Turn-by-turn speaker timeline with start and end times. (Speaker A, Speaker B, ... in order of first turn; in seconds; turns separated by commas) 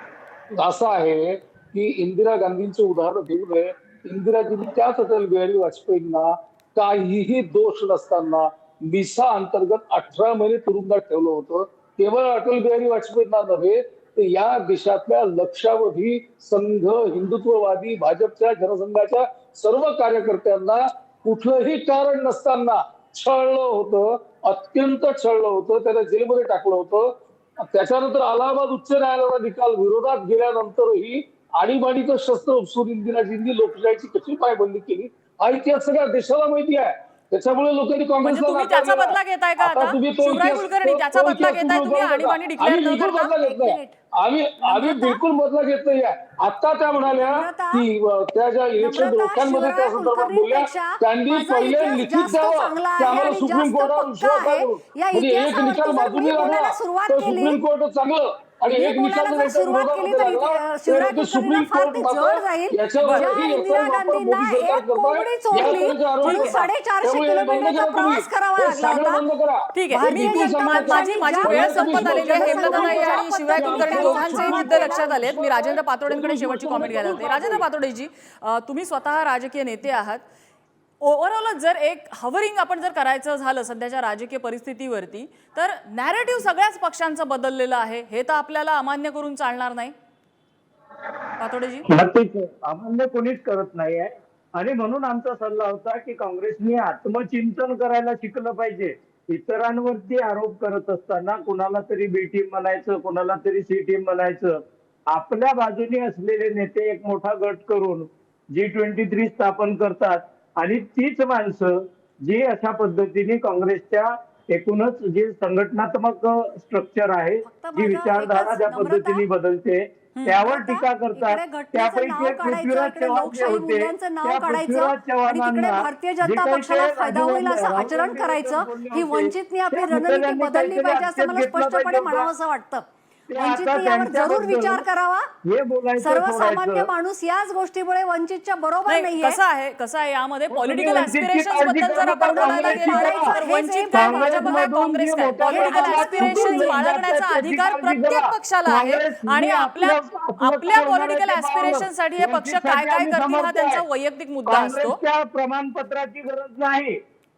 Speaker A: 0.5-77.7, Speaker B: 38.2-43.3, Speaker C: 43.0-44.0, Speaker C: 44.6-45.2, Speaker C: 47.3-47.9, Speaker C: 48.8-57.6, Speaker C: 58.7-69.2, Speaker B: 63.0-63.3, Speaker B: 66.2-66.6, Speaker B: 69.8-80.2, Speaker C: 69.9-75.1, Speaker B: 81.0-89.9, Speaker B: 91.4-91.9, Speaker D: 91.9-104.6, Speaker D: 105.1-132.3, Speaker C: 117.5-119.3, Speaker C: 120.3-135.3, Speaker D: 133.3-134.8, Speaker D: 135.4-136.9, Speaker C: 136.0-139.4, Speaker B: 138.9-155.0, Speaker D: 140.5-143.3, Speaker C: 141.9-144.7, Speaker D: 143.9-153.8, Speaker C: 145.4-146.8, Speaker D: 154.5-157.0